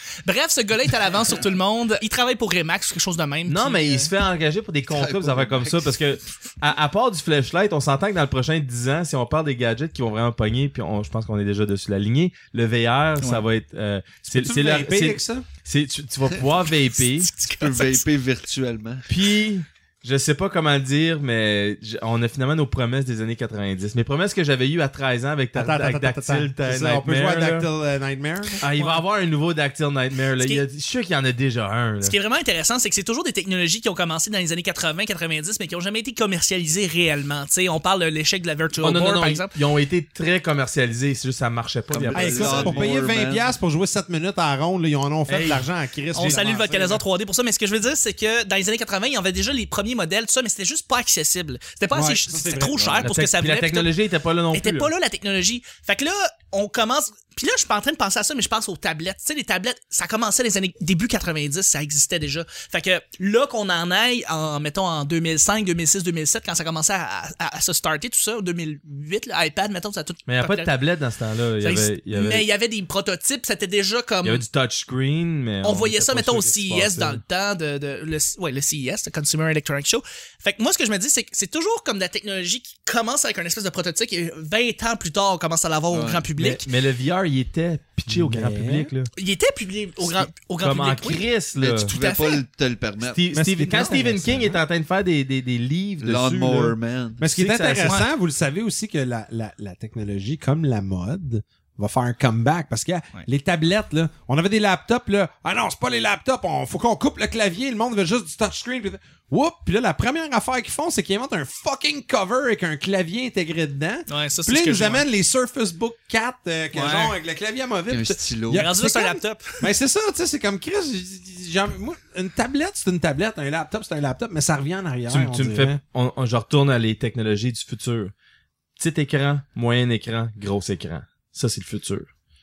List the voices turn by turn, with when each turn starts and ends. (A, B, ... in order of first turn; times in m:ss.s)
0:00.2-0:04.1 A
0:03.5-0:17.3 B
0:04.9-0:06.0 C
0:13.2-0:13.4 A
0:14.3-0:15.5 D
0:17.0-0:18.0 A
0:17.6-0:19.1 C
0:19.1-0:27.7 B
0:25.6-0:28.6 D
0:28.6-0:32.2 B
0:28.7-0:29.0 A
0:32.0-0:39.5 A
0:38.8-0:42.9 B
0:41.9-0:43.5 C
0:42.1-0:47.0 D
0:45.3-0:45.6 B
0:46.1-0:53.9 A
0:51.9-0:53.1 D
0:53.0-0:54.9 B
0:54.5-1:10.7 A
1:10.3-1:12.5 B
1:11.6-1:14.4 A
1:14.2-1:17.2 B
1:15.6-1:26.7 A
1:25.9-1:26.3 C
1:26.4-1:29.1 B
1:28.1-1:28.9 D
1:29.2-1:31.2 A
1:30.6-1:31.9 B
1:31.6-1:33.2 C
1:31.9-1:32.4 A
1:33.0-1:36.8 B
1:33.3-1:34.6 D
1:36.0-1:37.2 C
1:37.2-2:05.8 D
1:37.3-1:38.0 B
1:37.8-1:38.1 A
1:54.1-1:55.0 A
1:57.9-1:58.7 C
1:58.5-1:59.6 A
2:05.1-2:08.1 B
2:08.8-2:12.1 B